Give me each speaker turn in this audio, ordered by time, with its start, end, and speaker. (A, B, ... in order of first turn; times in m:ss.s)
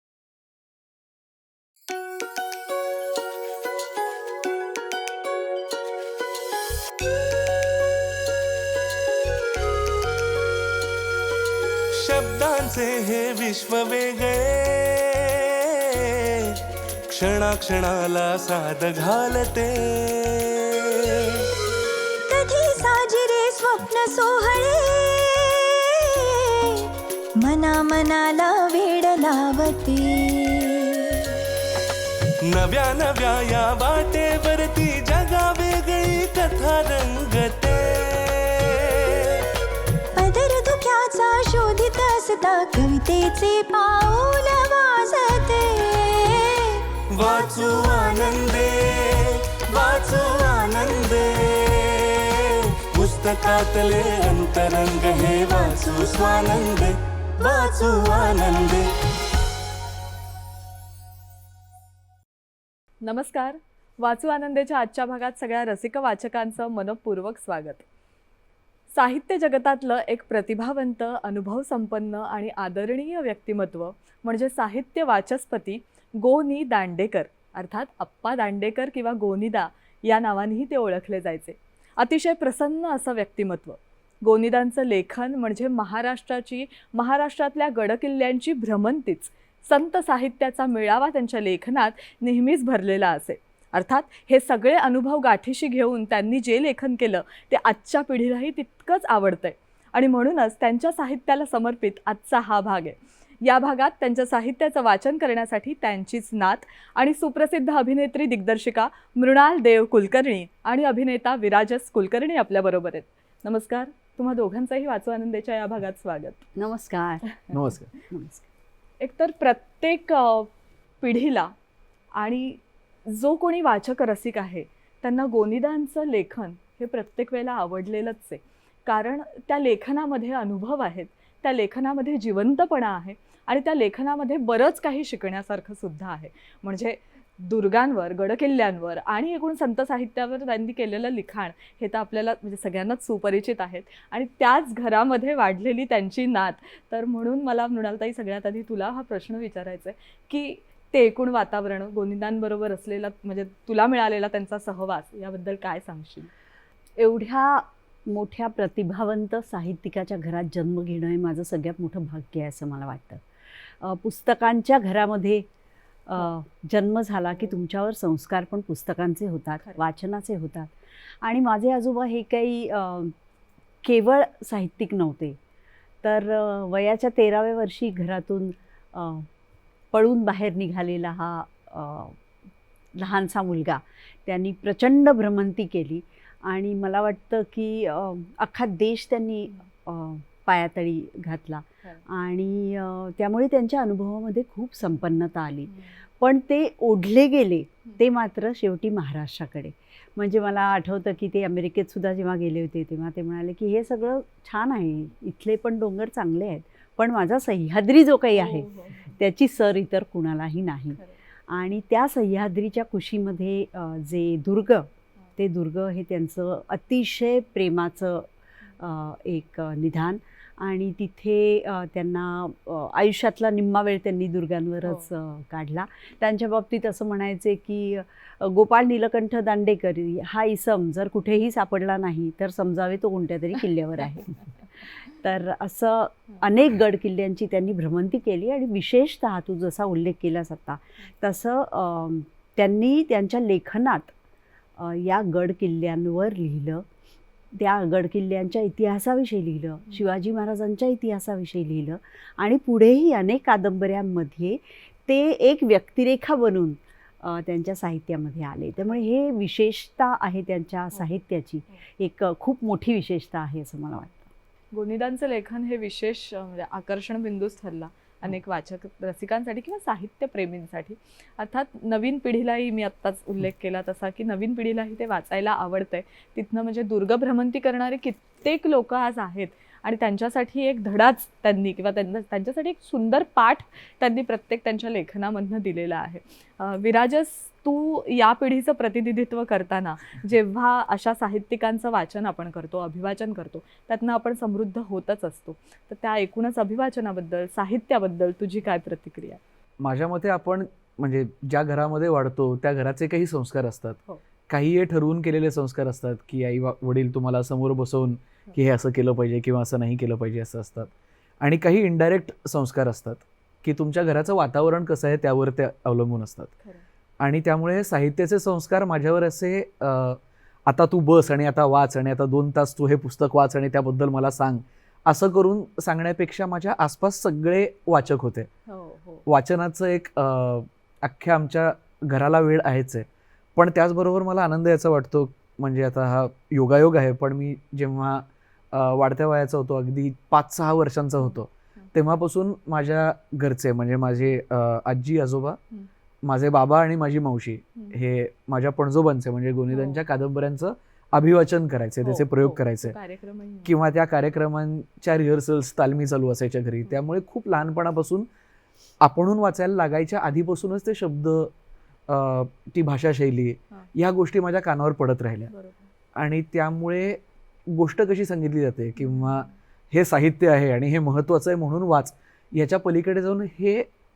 0:11.9-0:16.6 A
0:17.1-0:21.4 A
0:22.3-0:31.4 B
0:32.4-0:39.4 A
0:40.2-0:46.9 B
0:47.1-0:59.1 A
1:03.0-1:07.8 C
1:08.9-1:56.4 C
1:56.6-1:57.2 D
1:57.5-1:57.9 E
1:58.1-1:58.4 D
1:59.0-2:00.5 C
2:01.0-2:01.5 C
2:02.1-2:36.3 C
2:37.0-2:45.5 D
2:46.1-2:50.7 D
2:51.2-2:53.1 D
2:53.8-2:55.4 D
2:56.0-2:59.3 D
2:59.9-3:02.2 D
3:02.9-4:04.1 D
3:15.7-3:15.9 C
3:28.3-3:29.2 C
4:04.8-4:06.8 D
4:07.5-4:24.3 D
4:24.7-4:59.4 C
4:59.8-5:16.5 E
5:17.2-5:28.5 E
5:28.7-5:29.2 C
5:29.2-5:45.6 E
5:41.2-5:41.9 C
5:46.2-5:53.0 E
5:49.7-5:50.0 C
5:52.0-5:53.8 C
5:53.6-5:58.3 E
5:59.0-6:01.5 E
6:02.1-6:05.5 E
6:05.5-6:05.8 C
6:06.1-6:13.9 E
6:09.0-6:09.4 C